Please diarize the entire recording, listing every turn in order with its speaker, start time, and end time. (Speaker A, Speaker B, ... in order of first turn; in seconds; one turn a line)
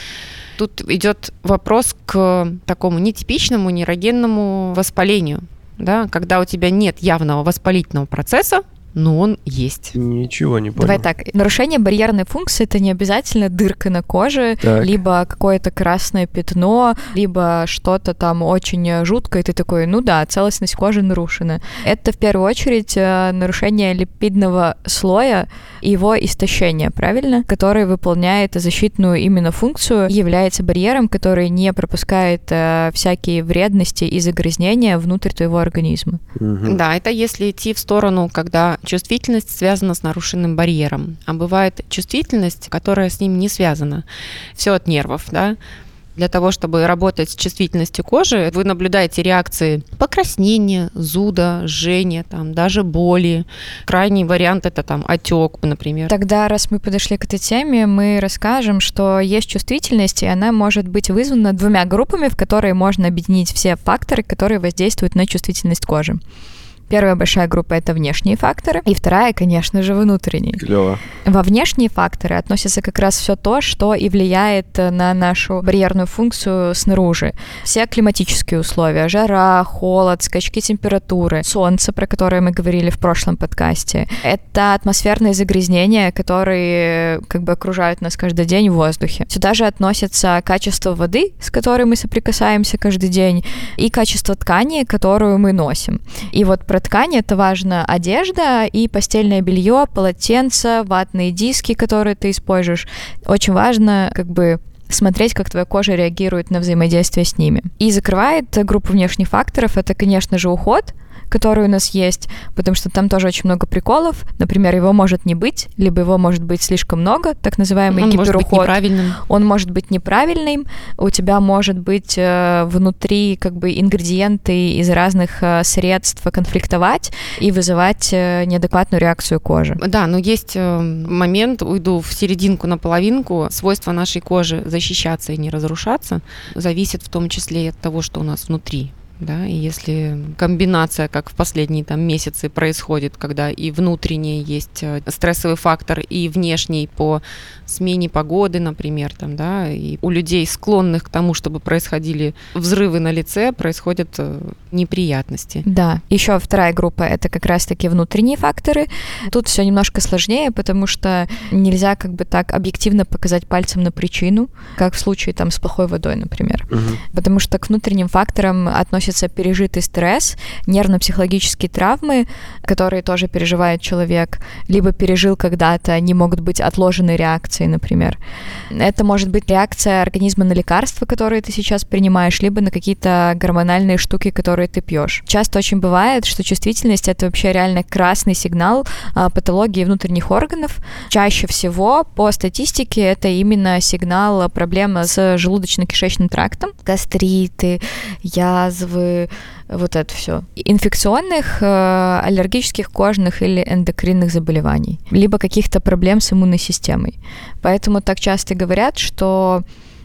Speaker A: 0.6-9.9
Speaker B: 9.9-11.1
Speaker C: 10.8-36.2
Speaker B: 14.6-14.9
Speaker B: 36.4-36.8
Speaker A: 36.6-44.0
Speaker A: 44.6-45.6
Speaker A: 46.1-56.1
Speaker C: 56.1-66.2
Speaker C: 66.9-70.6
Speaker B: 70.6-71.0
Speaker C: 71.2-129.8
Speaker A: 117.9-119.2
Speaker A: 129.8-155.7
Speaker C: 155.6-178.2
Speaker B: 166.7-167.0
Speaker C: 178.7-209.6